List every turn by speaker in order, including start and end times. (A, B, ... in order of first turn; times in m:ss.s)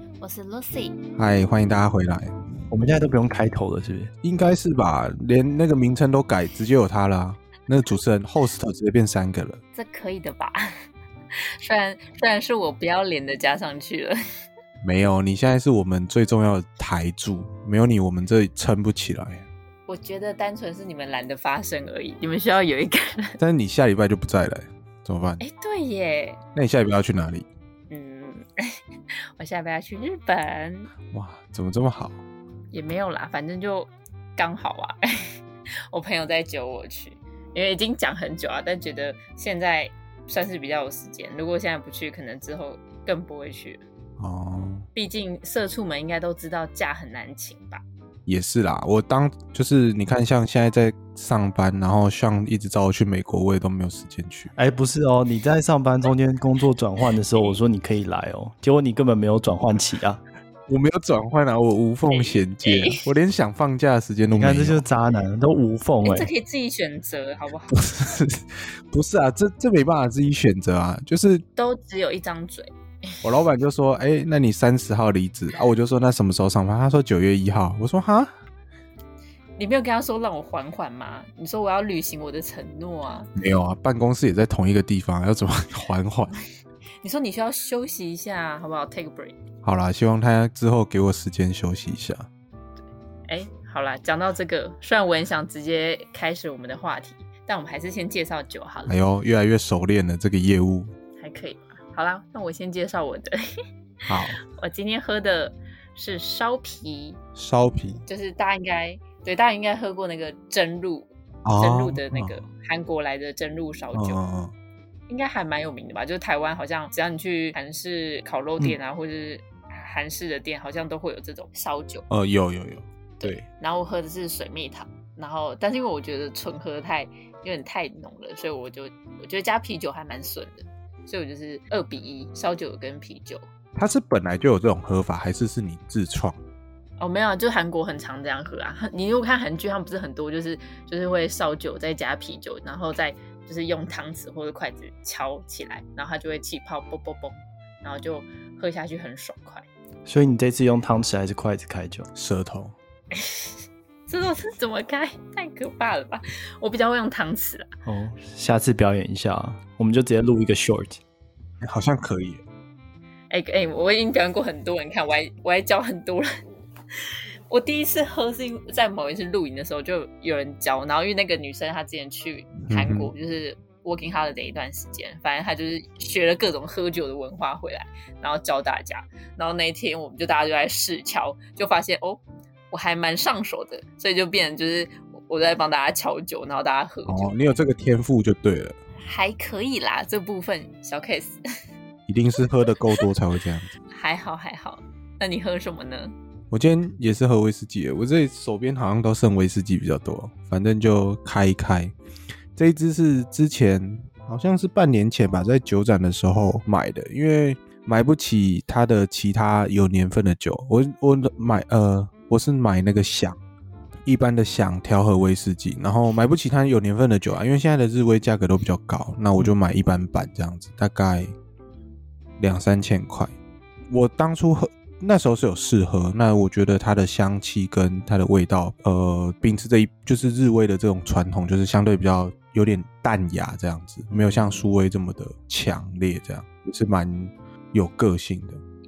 0:00.2-0:01.0 A
0:01.2-0:02.3 B
0:02.7-0:04.1 C
0:04.2-0:09.6 B
0:09.8-0:10.8 A
0:11.3-0:14.2 A
0:14.8-0:19.5 B
0:19.9-0:23.4 A
0:23.4-0:25.4 B
0:25.4-0:26.4 A
0:26.6-0:27.5 B
0:27.9-0:28.8 A
0:29.4-0:30.9 A
0:31.1-0:32.2 B
0:32.7-0:35.4 A
0:35.9-0:43.8 A
0:44.2-0:44.9 B
0:45.0-0:47.8 A
0:48.3-0:54.5 B
0:54.6-1:00.2 C
1:00.7-1:04.8 B
1:02.1-1:03.1 A
1:04.4-1:06.3 C
1:06.0-1:08.0 A
1:07.7-1:11.4 B
1:11.6-1:13.1 A
1:13.2-1:18.3 B
1:19.6-1:23.3 A
1:23.4-1:26.4 B
1:27.0-1:29.4 A
1:29.6-1:32.3 B
1:33.3-1:39.0 A
1:38.9-1:40.9 B
1:41.2-1:47.2 A
1:44.1-1:44.4 B
1:47.4-1:48.0 B
1:48.1-1:54.2 A
1:51.4-1:52.4 B
1:53.9-1:54.5 B
1:55.1-2:02.0 A
2:02.1-2:03.4 B
2:03.2-2:13.4 A
2:13.8-2:16.4 B
2:17.0-2:29.7 A
2:30.1-2:32.1 C
2:32.2-2:32.7 B
2:33.1-2:37.7 A
2:37.9-2:41.0 C
2:41.6-2:42.4 B
2:43.3-2:46.4 A
2:46.9-3:07.4 A
2:52.6-2:53.1 B
3:07.1-3:08.8 B
3:09.0-3:11.4 A
3:12.1-3:13.8 B
3:13.9-3:16.1 A
3:16.5-3:21.9 B
3:22.6-3:33.4 B
3:34.1-3:41.3 B
3:42.4-3:43.3 B
3:43.9-3:58.6 B
3:54.1-3:54.6 C